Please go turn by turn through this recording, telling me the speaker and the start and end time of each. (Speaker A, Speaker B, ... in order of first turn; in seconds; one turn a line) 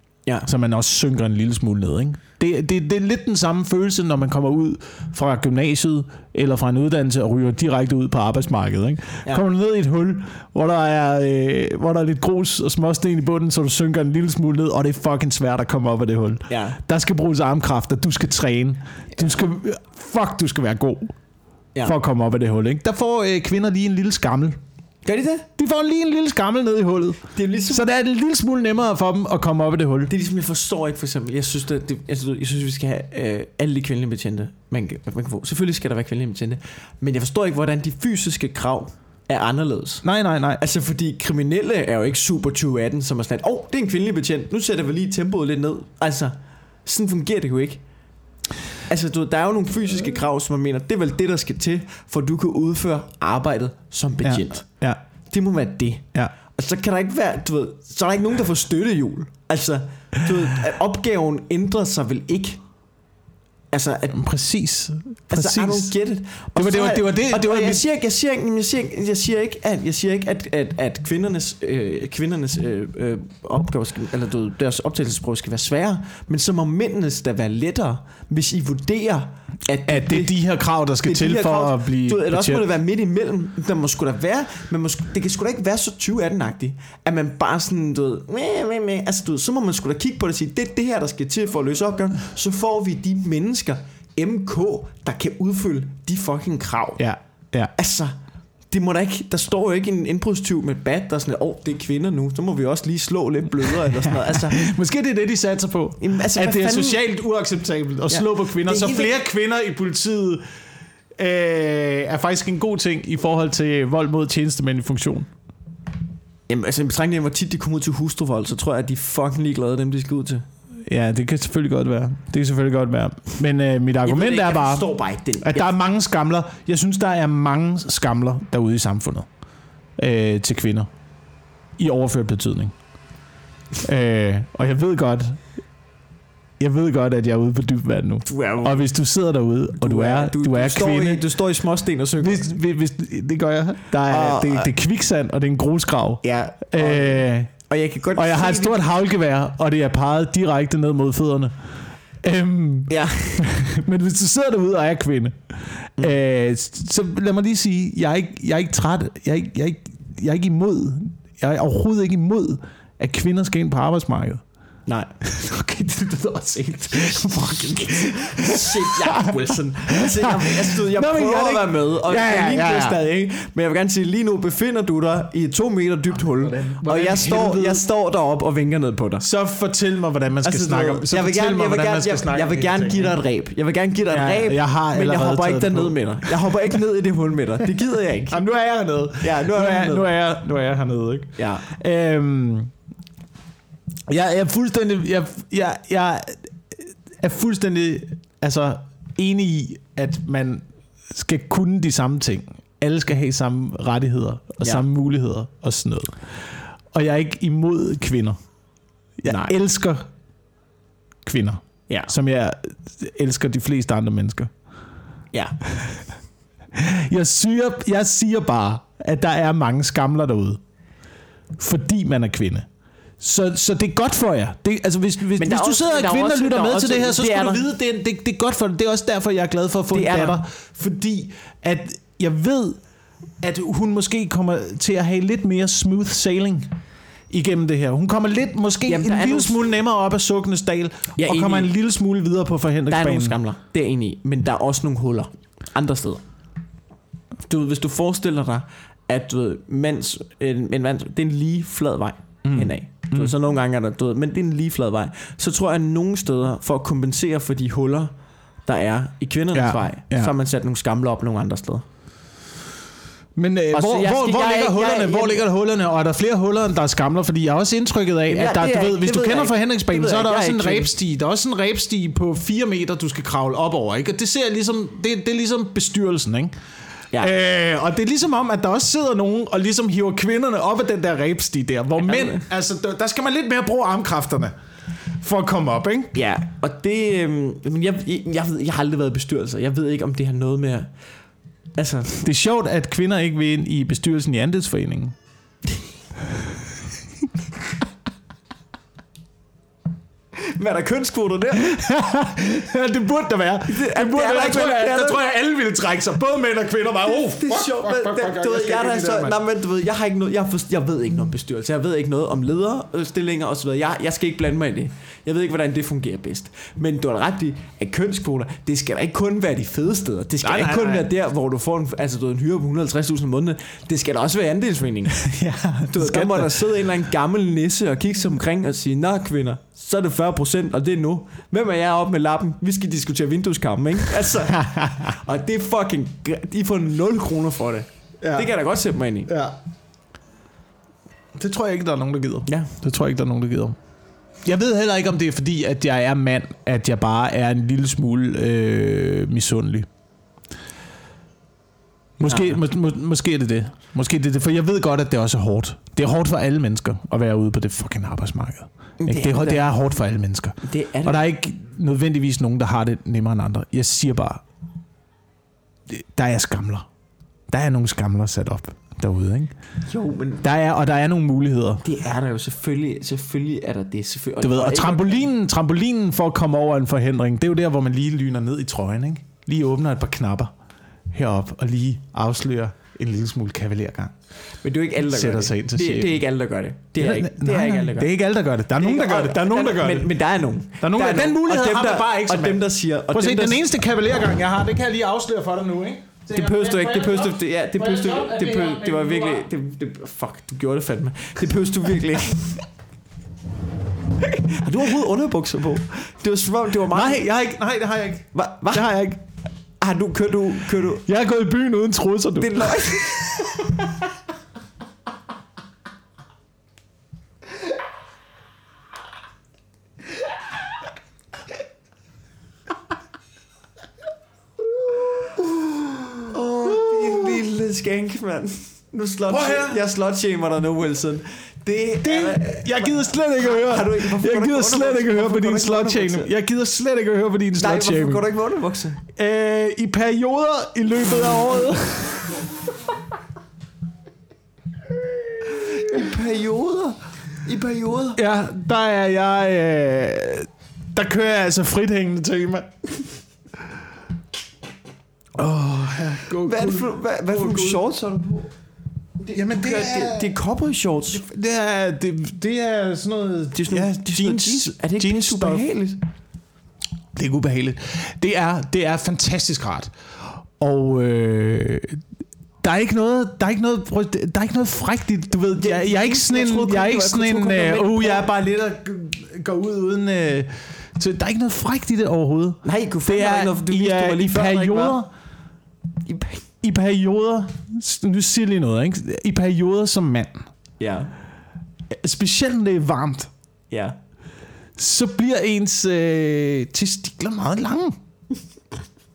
Speaker A: 0.5-21.1
Speaker B: 16.5-16.8
Speaker A: 21.8-24.6
Speaker B: 25.0-25.5
Speaker A: 25.6-30.1
Speaker B: 27.4-27.8
Speaker B: 30.1-40.0
Speaker A: 40.0-40.6
Speaker B: 40.6-47.8
Speaker B: 48.9-54.7
Speaker A: 54.2-55.0
Speaker B: 55.3-62.6
Speaker B: 63.7-64.2
Speaker A: 64.1-65.9
Speaker B: 65.3-80.4
Speaker A: 66.5-67.8
Speaker A: 79.9-82.7
Speaker B: 81.0-97.0
Speaker A: 97.0-97.7
Speaker B: 97.8-98.2
Speaker B: 98.7-104.7
Speaker A: 104.1-110.4
Speaker B: 106.0-107.0
Speaker B: 108.1-109.1
Speaker A: 111.2-115.3
Speaker B: 116.5-120.4
Speaker A: 120.9-124.9
Speaker B: 124.1-125.7
Speaker A: 125.4-129.3
Speaker A: 130.0-130.9
Speaker A: 131.8-132.7
Speaker A: 133.8-135.4
Speaker A: 136.6-141.2
Speaker B: 138.3-138.9
Speaker B: 139.8-142.5
Speaker A: 142.2-147.5
Speaker B: 144.1-144.7
Speaker B: 146.2-148.8
Speaker A: 148.2-151.5
Speaker A: 152.2-164.4
Speaker B: 152.9-153.5
Speaker B: 164.9-165.1
Speaker A: 165.2-173.0
Speaker B: 166.6-179.3
Speaker A: 176.4-177.8
Speaker A: 179.2-183.2
Speaker B: 180.4-188.4
Speaker A: 184.1-186.8
Speaker A: 188.3-192.7
Speaker B: 189.2-190.1
Speaker B: 191.4-191.7
Speaker A: 194.1-208.4
Speaker A: 209.2-210.0
Speaker B: 209.3-209.5
Speaker A: 211.2-214.5
Speaker B: 215.3-215.6
Speaker A: 215.8-216.0
Speaker A: 216.7-220.6
Speaker A: 221.6-222.7
Speaker A: 223.2-232.8
Speaker B: 225.4-227.6
Speaker B: 229.9-230.4
Speaker A: 233.4-236.7
Speaker A: 237.3-243.4
Speaker B: 238.9-239.6
Speaker B: 241.2-241.7
Speaker B: 242.9-246.2
Speaker B: 247.5-258.1
Speaker A: 252.4-253.3
Speaker B: 258.6-261.9
Speaker A: 259.5-260.3
Speaker A: 263.4-276.5
Speaker B: 263.7-265.4
Speaker B: 268.3-270.9
Speaker A: 277.2-284.5
Speaker B: 282.0-282.4
Speaker A: 285.2-286.1
Speaker B: 286.1-290.9
Speaker B: 291.8-292.2
Speaker A: 292.2-295.1
Speaker B: 300.4-301.7
Speaker A: 301.6-309.4
Speaker B: 303.7-305.2
Speaker B: 307.1-325.2
Speaker A: 320.4-321.1
Speaker A: 325.2-326.7
Speaker B: 325.9-339.3
Speaker A: 334.6-335.1
Speaker A: 338.2-338.5
Speaker A: 339.3-339.6
Speaker A: 341.4-343.8
Speaker B: 342.5-342.7
Speaker A: 344.4-349.9
Speaker A: 352.2-364.4
Speaker B: 352.3-352.6
Speaker B: 359.0-359.7
Speaker B: 360.6-361.2
Speaker A: 365.9-366.9
Speaker A: 367.5-369.5
Speaker B: 369.9-370.4
Speaker A: 370.4-371.8
Speaker B: 371.8-375.3
Speaker A: 374.4-380.5
Speaker A: 381.1-384.1
Speaker B: 384.6-388.1
Speaker A: 385.0-386.2
Speaker A: 387.0-390.1
Speaker B: 388.8-393.6
Speaker A: 390.8-399.5
Speaker B: 396.3-402.6
Speaker B: 404.2-407.2
Speaker A: 406.9-409.2
Speaker B: 408.3-408.9
Speaker B: 409.8-411.1
Speaker A: 411.1-414.0
Speaker B: 412.4-413.5
Speaker A: 425.4-426.2
Speaker B: 426.3-436.3
Speaker A: 426.7-427.4
Speaker A: 429.3-429.8
Speaker A: 432.0-438.2
Speaker B: 437.6-439.0
Speaker A: 439.2-442.4
Speaker B: 445.6-448.2
Speaker A: 448.2-452.7
Speaker A: 455.4-457.8
Speaker B: 456.4-458.5
Speaker B: 459.2-461.3
Speaker A: 459.3-460.3
Speaker A: 461.1-465.6
Speaker B: 463.6-466.0
Speaker A: 467.1-472.0
Speaker A: 472.6-485.1
Speaker B: 475.6-478.3
Speaker B: 482.6-485.0
Speaker B: 486.1-486.4
Speaker A: 486.6-490.5
Speaker B: 490.8-491.1
Speaker A: 491.9-493.3
Speaker B: 493.7-494.0
Speaker A: 494.8-497.9